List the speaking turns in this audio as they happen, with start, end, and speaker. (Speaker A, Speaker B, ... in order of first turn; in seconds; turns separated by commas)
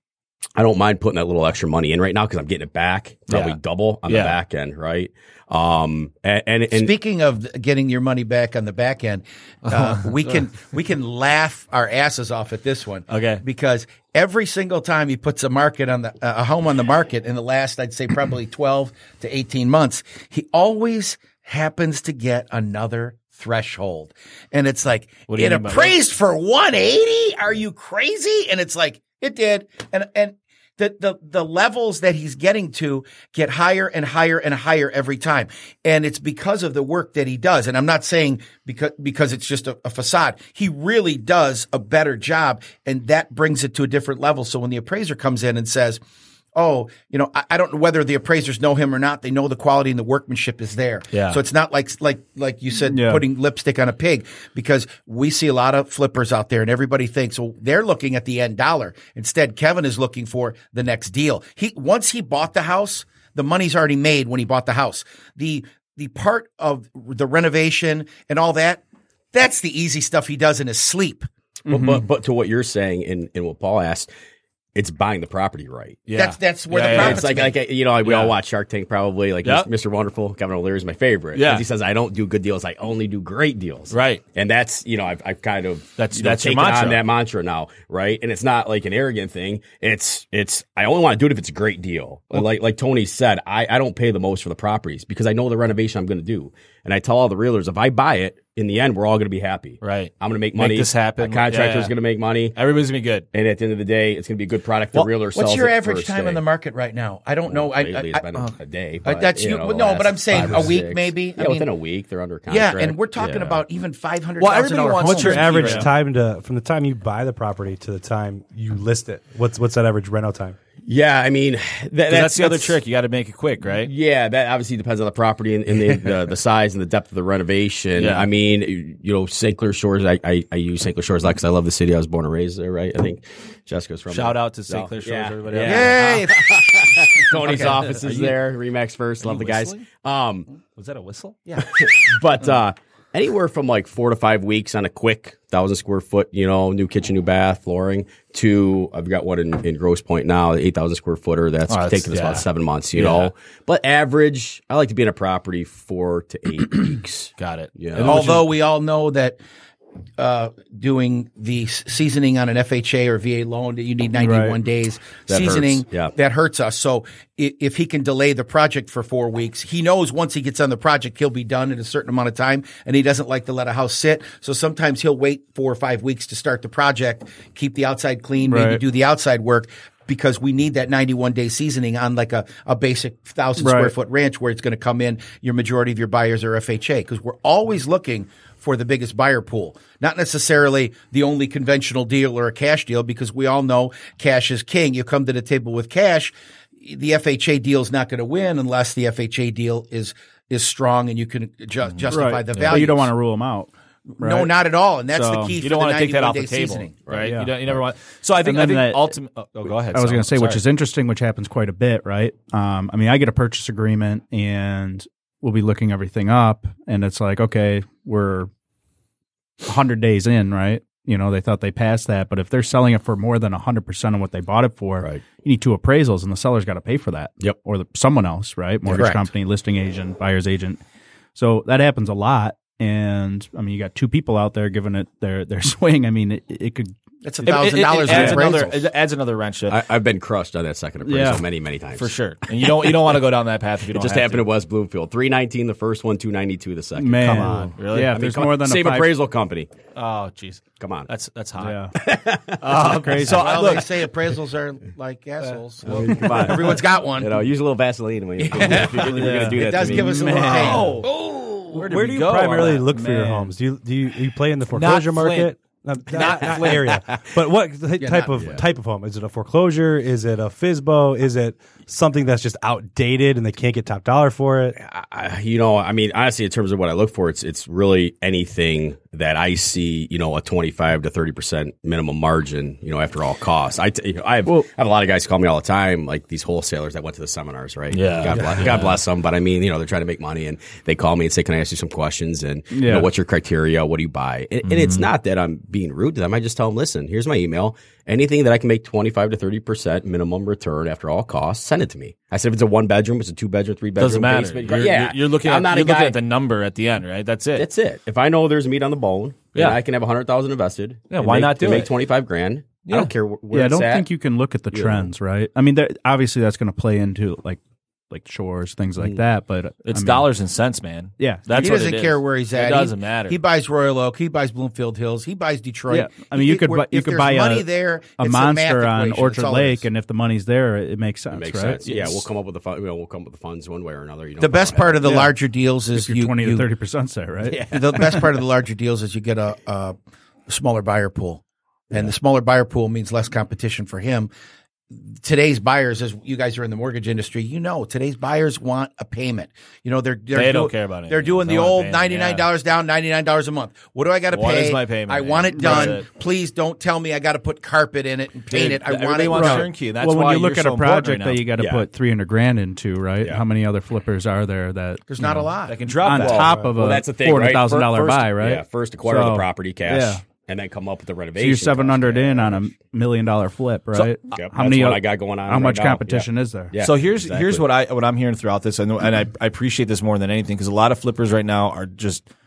Speaker A: 0.6-6.9, Speaker B: 3.3-4.3, Speaker C: 6.7-46.0, Speaker B: 9.7-10.3, Speaker B: 13.1-13.4, Speaker B: 25.3-26.0, Speaker C: 46.5-68.8, Speaker B: 51.1-51.4, Speaker D: 52.9-53.2, Speaker C: 69.3-71.3, Speaker D: 71.7-72.0, Speaker A: 71.7-74.1, Speaker A: 74.7-76.1, Speaker B: 76.1-77.3, Speaker C: 76.2-77.6, Speaker A: 76.8-102.6, Speaker B: 78.0-78.3, Speaker B: 81.3-81.6, Speaker B: 83.9-84.2, Speaker B: 86.0-87.0, Speaker B: 99.8-101.9, Speaker B: 102.5-103.3, Speaker A: 103.3-106.4, Speaker C: 105.0-111.7, Speaker A: 107.5-113.6, Speaker C: 112.5-115.8, Speaker B: 114.4-115.9, Speaker E: 115.0-120.6, Speaker A: 120.8-122.8, Speaker B: 122.1-123.9, Speaker A: 123.7-140.5, Speaker B: 128.0-128.3, Speaker B: 134.1-136.1, Speaker C: 135.6-137.8, Speaker B: 137.4-138.4, Speaker B: 139.2-139.9, Speaker B: 140.8-141.4, Speaker C: 141.5-141.8, Speaker A: 141.6-158.4, Speaker B: 151.7-153.3, Speaker B: 157.4-158.4, Speaker C: 158.0-159.4, Speaker C: 160.2-203.1, Speaker D: 164.1-164.6, Speaker A: 165.2-166.1, Speaker D: 178.4-178.8, Speaker D: 183.6-183.9, Speaker D: 202.1-204.5, Speaker B: 202.5-202.8, Speaker C: 204.2-206.9, Speaker D: 205.1-205.6, Speaker B: 205.6-210.6, Speaker A: 207.1-207.8, Speaker D: 207.2-207.5, Speaker D: 208.4-209.1, Speaker D: 209.9-218.5, Speaker D: 219.6-230.8, Speaker A: 228.8-229.1, Speaker C: 228.9-229.2, Speaker D: 231.3-236.9, Speaker C: 237.2-238.8, Speaker B: 237.4-239.8, Speaker D: 238.1-238.4, Speaker A: 239.7-243.2, Speaker D: 241.0-241.4, Speaker B: 242.0-244.4, Speaker A: 243.9-249.7, Speaker D: 246.9-249.1, Speaker B: 247.2-248.1, Speaker B: 249.9-251.8, Speaker A: 250.8-251.1, Speaker D: 251.6-251.9, Speaker A: 251.9-252.9, Speaker B: 252.6-254.0, Speaker D: 252.7-253.5, Speaker C: 253.3-257.4, Speaker B: 255.8-256.4, Speaker A: 255.8-260.8, Speaker C: 258.4-261.8, Speaker D: 258.8-261.0, Speaker B: 260.3-261.1, Speaker B: 261.7-263.0, Speaker E: 261.8-274.7, Speaker D: 262.9-263.5, Speaker B: 264.7-265.5, Speaker B: 266.1-267.0, Speaker C: 268.0-268.4, Speaker A: 274.8-306.2, Speaker B: 287.9-289.0, Speaker D: 292.7-293.1, Speaker B: 294.6-295.1, Speaker B: 304.0-307.7, Speaker A: 307.5-314.1, Speaker B: 311.1-311.9, Speaker B: 312.9-313.1, Speaker D: 313.5-317.6, Speaker A: 314.7-315.1, Speaker D: 318.1-320.3, Speaker B: 319.8-323.4, Speaker D: 321.2-321.5, Speaker C: 321.5-329.9, Speaker D: 325.9-327.6, Speaker D: 328.2-331.8, Speaker A: 331.3-335.1, Speaker B: 331.8-332.2, Speaker C: 334.4-336.7, Speaker D: 335.0-335.3, Speaker D: 335.9-338.2, Speaker A: 337.5-338.0, Speaker C: 337.7-339.9, Speaker C: 340.5-344.3, Speaker C: 345.1-359.7, Speaker B: 350.3-352.4, Speaker B: 354.3-356.1, Speaker D: 355.5-356.0, Speaker B: 358.5-361.4, Speaker D: 359.3-370.2, Speaker A: 361.6-361.9, Speaker C: 365.1-365.8, Speaker B: 365.7-366.6, Speaker A: 366.1-372.7, Speaker D: 371.4-376.7, Speaker A: 374.3-377.6, Speaker B: 376.8-382.2